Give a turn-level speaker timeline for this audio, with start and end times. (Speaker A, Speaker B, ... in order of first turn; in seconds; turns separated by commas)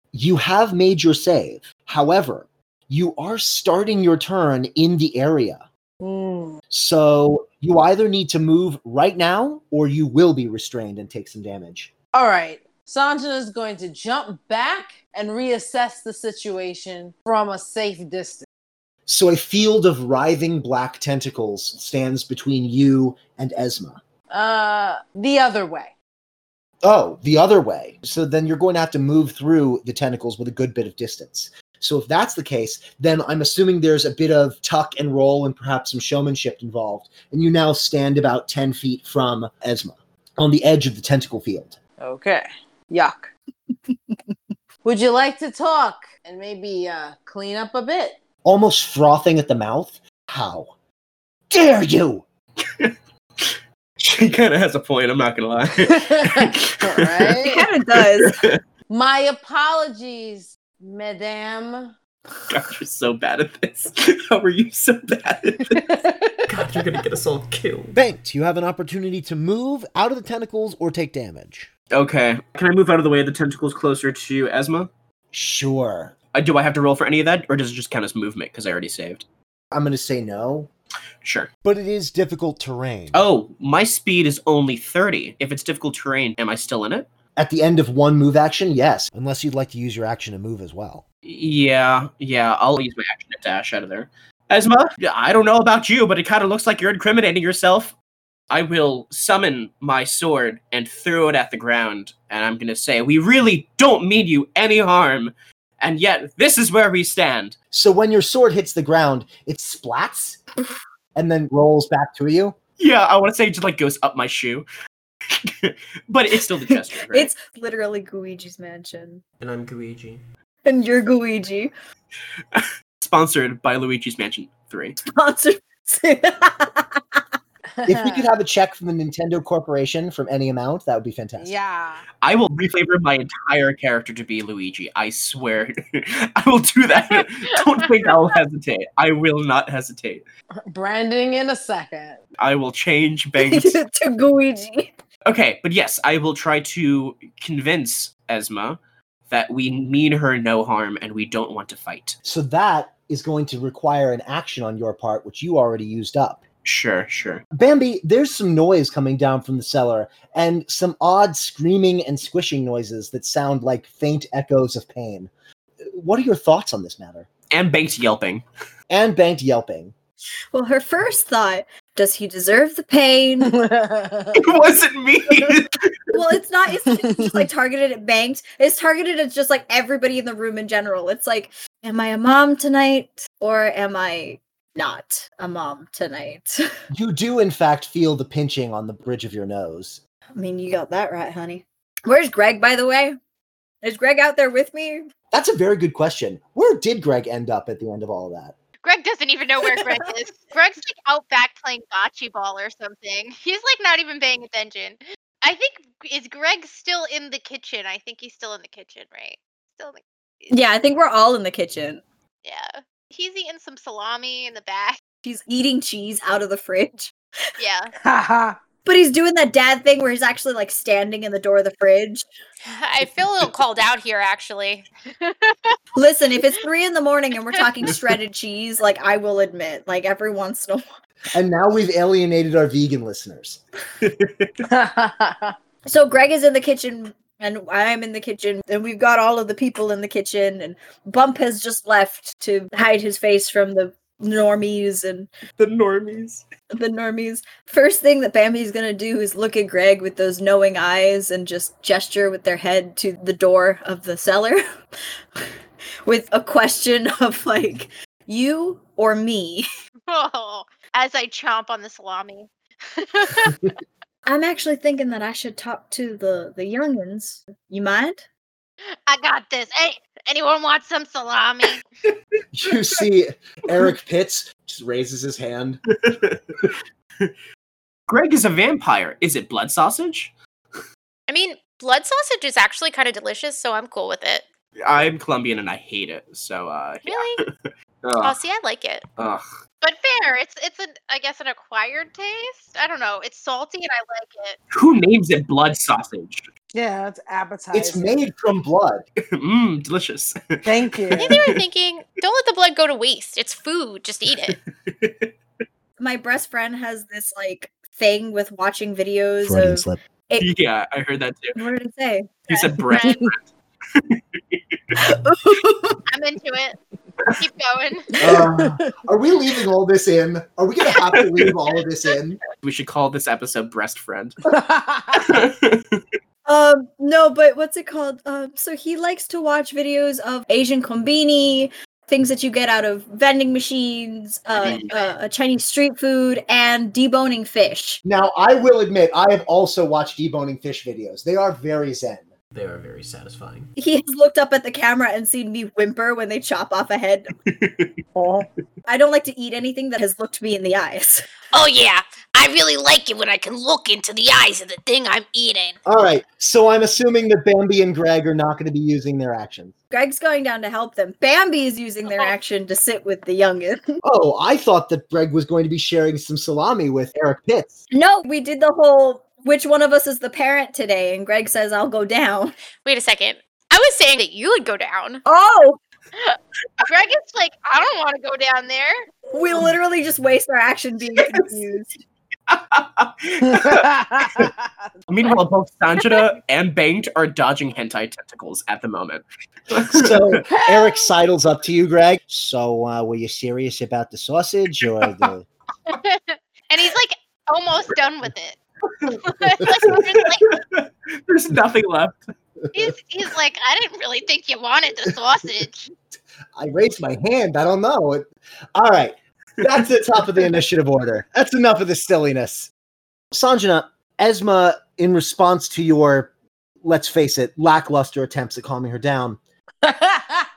Speaker A: 0.1-5.6, Speaker B: 6.0-6.6, Speaker A: 6.7-11.9, Speaker B: 12.1-18.4, Speaker A: 19.1-24.0, Speaker B: 24.3-25.9, Speaker A: 26.8-41.8, Speaker B: 42.0-43.3, Speaker B: 44.8-48.2, Speaker A: 48.4-50.7, Speaker A: 51.5-52.2, Speaker C: 52.6-57.4, Speaker B: 55.8-57.7, Speaker D: 57.4-58.4, Speaker C: 58.0-58.6, Speaker B: 58.9-61.9, Speaker C: 62.5-65.9, Speaker B: 65.7-66.4, Speaker C: 66.5-68.0, Speaker A: 67.9-71.7, Speaker C: 71.9-74.9, Speaker A: 75.3-76.1, Speaker C: 76.3-79.2, Speaker A: 79.7-80.7, Speaker C: 81.2-81.5, Speaker A: 81.6-83.2, Speaker C: 83.1-87.1, Speaker A: 87.4-91.0, Speaker C: 91.2-97.9, Speaker C: 98.5-107.5, Speaker A: 107.7-110.4, Speaker A: 111.1-112.5, Speaker C: 112.8-114.7, Speaker C: 115.3-117.3, Speaker D: 117.1-119.2, Speaker C: 119.4-120.2, Speaker D: 120.6-121.7, Speaker C: 122.5-125.0, Speaker D: 125.0-127.2, Speaker B: 127.7-128.3, Speaker A: 127.9-131.6, Speaker B: 131.4-132.0, Speaker C: 132.2-140.2, Speaker B: 140.7-142.2, Speaker C: 142.4-143.8, Speaker D: 143.4-144.9, Speaker C: 145.2-152.2, Speaker A: 152.2-156.4, Speaker C: 156.6-157.4, Speaker A: 157.5-165.3, Speaker A: 165.8-167.3, Speaker C: 167.5-168.4, Speaker A: 168.9-169.9, Speaker D: 170.5-173.5, Speaker B: 173.4-174.4, Speaker C: 174.3-176.2, Speaker D: 176.1-186.6, Speaker B: 176.8-177.4, Speaker A: 186.9-190.0, Speaker D: 190.3-193.2, Speaker D: 193.8-195.1, Speaker A: 195.3-198.5, Speaker E: 198.8-210.5, Speaker D: 210.5-212.0, Speaker E: 212.4-215.0, Speaker D: 215.2-217.1, Speaker E: 217.6-217.9, Speaker B: 218.0-218.6, Speaker D: 218.8-222.2, Speaker E: 222.7-225.8, Speaker D: 225.9-230.8, Speaker A: 231.3-233.6, Speaker C: 234.0-234.5, Speaker B: 234.7-235.5, Speaker D: 235.8-245.3, Speaker C: 245.6-246.4, Speaker D: 246.7-254.6, Speaker D: 256.1-259.6, Speaker E: 260.1-263.7, Speaker D: 264.2-268.2, Speaker E: 269.1-271.8, Speaker A: 272.5-275.8, Speaker C: 275.9-277.3, Speaker C: 278.1-280.3, Speaker E: 281.3-284.4, Speaker C: 284.8-288.4, Speaker E: 287.1-287.4, Speaker E: 288.2-289.0, Speaker C: 289.2-289.4, Speaker E: 289.8-294.6, Speaker C: 294.7-296.4, Speaker B: 296.7-298.2, Speaker A: 297.7-299.0, Speaker C: 299.3-301.6, Speaker B: 300.6-301.4, Speaker E: 301.2-304.6, Speaker C: 304.9-305.3, Speaker D: 306.0-310.5, Speaker A: 309.4-310.0, Speaker C: 310.4-311.6, Speaker D: 311.6-313.0, Speaker C: 312.5-315.0, Speaker E: 312.9-313.2, Speaker B: 313.0-313.3, Speaker D: 314.9-316.0, Speaker E: 316.1-318.1, Speaker B: 318.2-319.0, Speaker A: 318.2-322.4, Speaker C: 321.1-321.5, Speaker C: 322.6-324.4, Speaker B: 324.5-325.4, Speaker C: 325.1-326.0, Speaker D: 326.4-338.0, Speaker C: 334.5-334.9, Speaker A: 338.0-342.3, Speaker C: 342.5-343.7, Speaker D: 343.8-347.3, Speaker C: 347.4-347.9, Speaker B: 348.1-348.5, Speaker D: 348.9-351.3, Speaker E: 351.5-355.8, Speaker A: 355.8-359.7, Speaker D: 359.9-364.0, Speaker E: 362.1-362.3, Speaker A: 364.0-367.8, Speaker D: 367.9-372.5, Speaker E: 372.8-375.2, Speaker D: 375.2-375.8, Speaker E: 376.1-379.1, Speaker D: 379.3-382.0, Speaker C: 382.5-384.5, Speaker B: 383.4-384.9, Speaker C: 385.1-390.4, Speaker A: 389.8-395.5, Speaker B: 390.5-391.0, Speaker E: 395.9-398.6, Speaker C: 399.0-402.3, Speaker E: 399.2-400.5, Speaker E: 402.7-405.9, Speaker A: 406.6-412.7, Speaker A: 413.3-416.3, Speaker A: 416.8-419.4, Speaker B: 419.8-420.5